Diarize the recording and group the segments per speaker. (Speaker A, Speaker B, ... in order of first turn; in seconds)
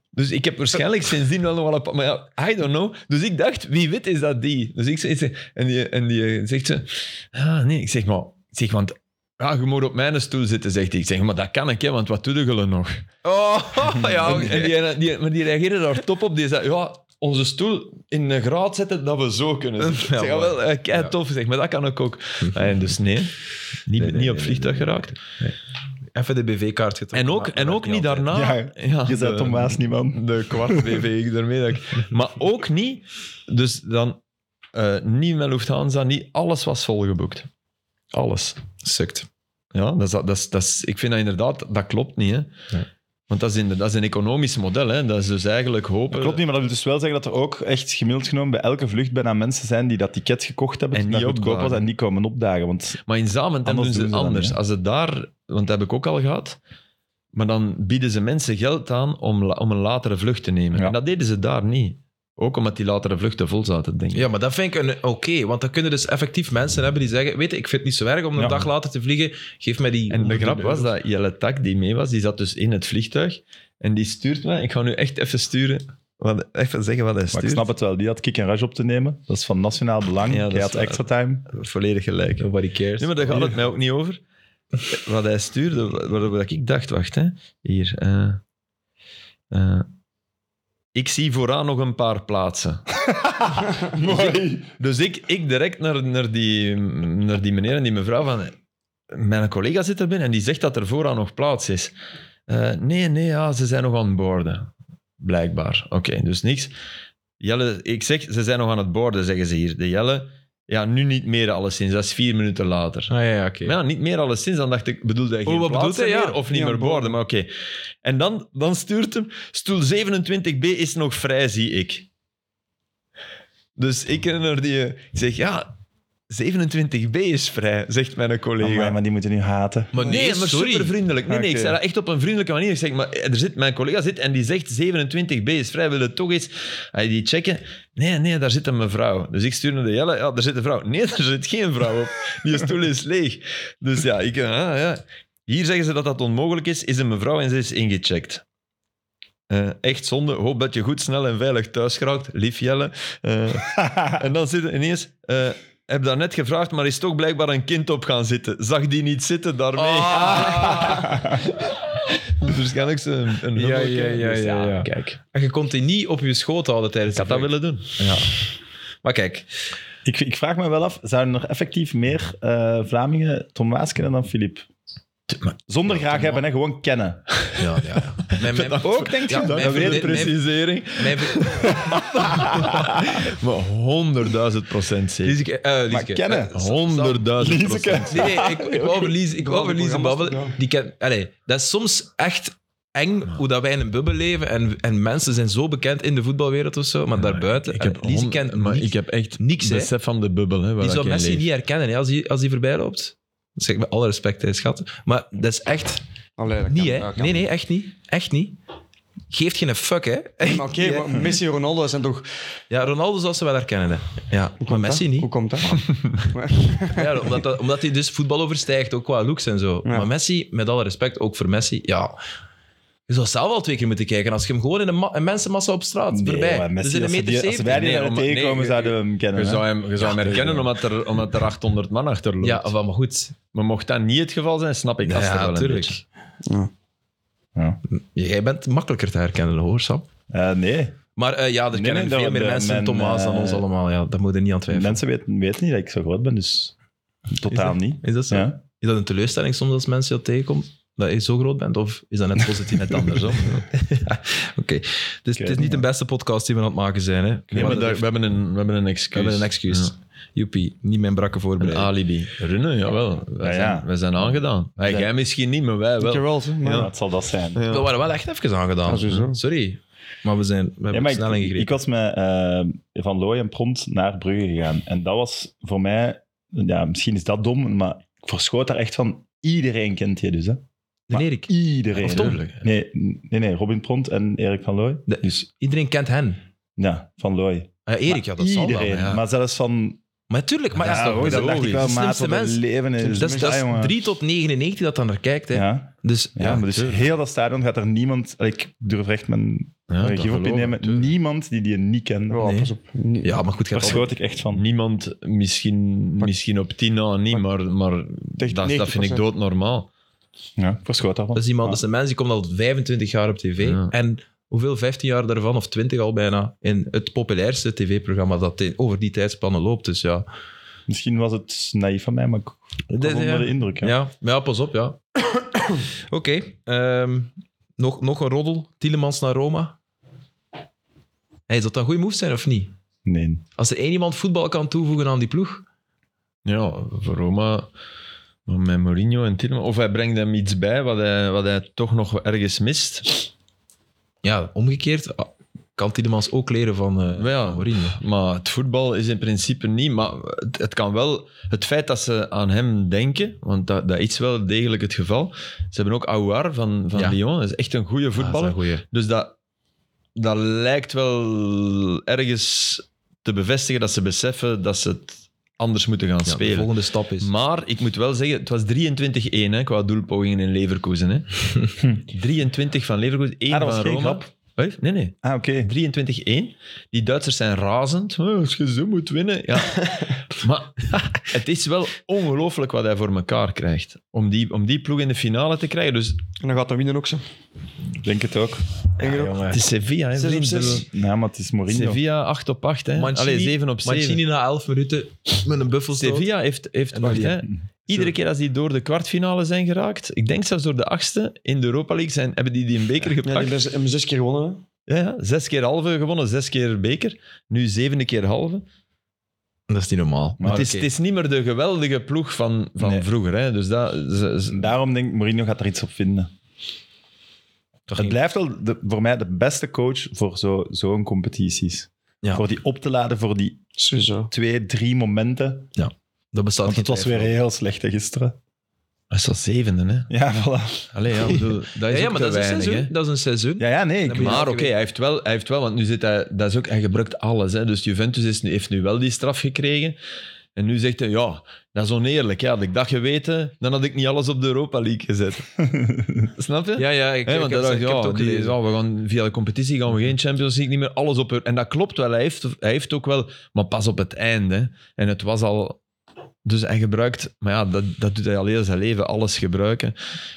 Speaker A: 0.1-13.0, 13.9-25.2, 27.1-34.2, 34.7-37.5, 38.1-38.6, 39.7-42.5, 43.3-46.4, 50.9-51.8, 53.1-56.6, 57.3-64.3, 70.1-77.7, 80.3-84.2, 84.9-88.4, 89.5-89.9, 90.9-92.9, 93.8-98.5, 99.1-101.9, 102.5-106.7, 107.4-117.5, 118.0-122.1, 123.8-125.7, 126.3-129.0, 130.0-148.4, 149.5-165.2, 167.1-168.0, 175.3-175.6, 177.4-185.4, 186.5-188.4, 197.2-201.5, 227.7-232.7, 233.5-236.0, 252.8-253.4, 257.5-259.9, 261.6-266.9, 267.5-267.9, 281.9-282.6, 288.8-289.2, 290.8-291.9, 299.9-301.1, 304.5-309.9, 313.6-313.9, 336.4-337.7, 338.4-343.3, 347.1-359.3, 360.1-386.2, 389.5-390.9, 391.7-394.2, 395.9-403.6, 404.9-408.6, 410.4-414.7, 429.1-430.1, 430.9-432.9, 434.2-439.9, 440.6-445.6, 446.3-455.8, 456.4-459.9
Speaker B: 13.2-14.8, 19.8-21.1, 24.0-25.6, 26.1-28.3, 38.8-39.3, 64.1-70.9, 82.4-83.5, 113.1-113.8, 115.5-116.4, 129.9-130.9, 159.8-161.3, 163.6-168.4, 169.0-169.5, 177.6-180.4, 180.9-182.7, 185.2-199.9, 200.8-206.0, 206.7-208.6, 209.3-211.3, 212.7-215.3, 216.9-222.2, 223.1-228.1, 232.4-233.3, 235.0-236.0, 237.9-240.1, 241.2-245.0, 247.5-258.1, 259.1-261.9, 267.7-271.7, 281.1-282.4, 285.1-286.4, 287.9-289.0, 290.3-297.0, 302.4-302.7, 303.2-304.1, 311.4-320.3, 322.9-329.8, 331.5-332.7, 333.6-335.6, 344.2-348.0, 358.1-358.8, 366.2-367.3, 389.0-389.6, 392.9-396.3, 396.9-398.1, 409.7-410.9, 417.9-418.2, 425.7-427.4, 431.3-434.7, 446.8-448.6
Speaker C: 28.3-31.0, 46.1-53.0, 53.6-54.6, 68.3-68.7, 77.3-81.5, 93.1-94.7, 128.6-129.9, 131.3-131.8, 160.9-161.4, 170.1-174.7, 175.7-177.3, 178.8-180.3, 182.3-183.2, 185.9-186.5, 187.4-189.1, 226.1-230.7, 240.3-241.0, 241.7-243.7, 244.7-246.7, 247.3-248.6, 255.3-255.8, 257.5-257.8, 263.4-265.1, 266.7-267.6, 270.9-285.4, 286.8-290.0, 290.8-294.0, 295.5-302.5, 303.7-304.6, 310.6-311.8, 320.9-323.9, 333.1-333.4, 373.5-374.3, 375.2-375.7, 388.0-388.6, 390.7-392.0, 410.4-410.7, 412.8-413.1, 414.5-416.3, 417.9-423.6, 424.3-425.7, 426.6-428.4, 430.1-430.9, 433.6-434.4, 445.7-446.2
Speaker D: 116.5-117.2, 189.4-190.6, 206.4-207.5, 210.4-212.3, 214.6-217.3, 219.8-220.1, 236.4-236.7, 266.0-266.9, 268.9-269.4, 293.0-293.6, 302.3-303.4, 308.4-309.2, 386.4-387.2, 389.0-389.5, 390.1-390.8, 403.2-404.6, 423.8-424.3